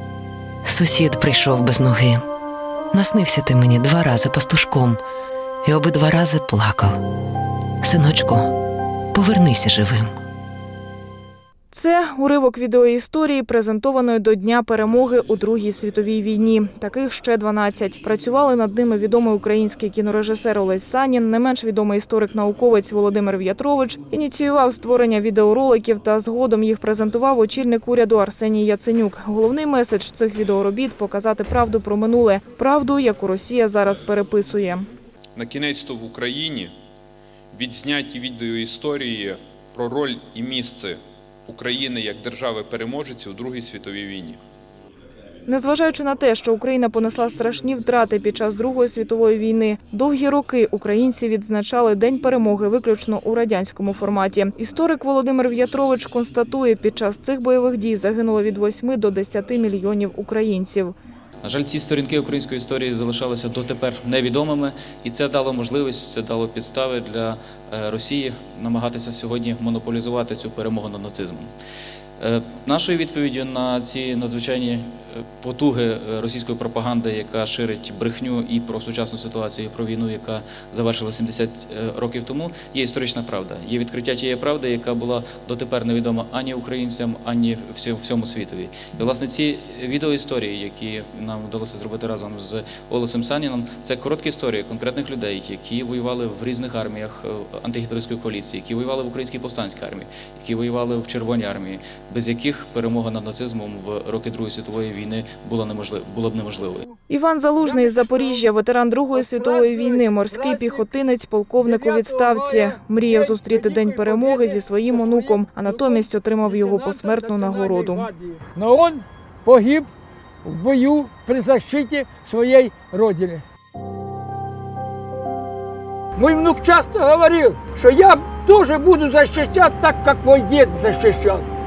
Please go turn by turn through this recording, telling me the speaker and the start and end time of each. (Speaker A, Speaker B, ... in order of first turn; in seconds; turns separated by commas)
Speaker A: 0.7-2.2, Speaker A: 2.9-5.0, Speaker A: 5.6-7.0, Speaker A: 7.8-8.5, Speaker A: 9.1-10.1, Speaker B: 11.7-34.9, Speaker C: 35.4-36.7, Speaker C: 37.5-44.4, Speaker B: 45.5-61.0, Speaker D: 61.4-71.5, Speaker D: 72.2-106.8, Speaker B: 107.1-118.1, Speaker E: 107.6-108.5, Speaker E: 109.1-110.9, Speaker E: 111.6-119.9, Speaker E: 120.4-123.4, Speaker E: 126.2-131.4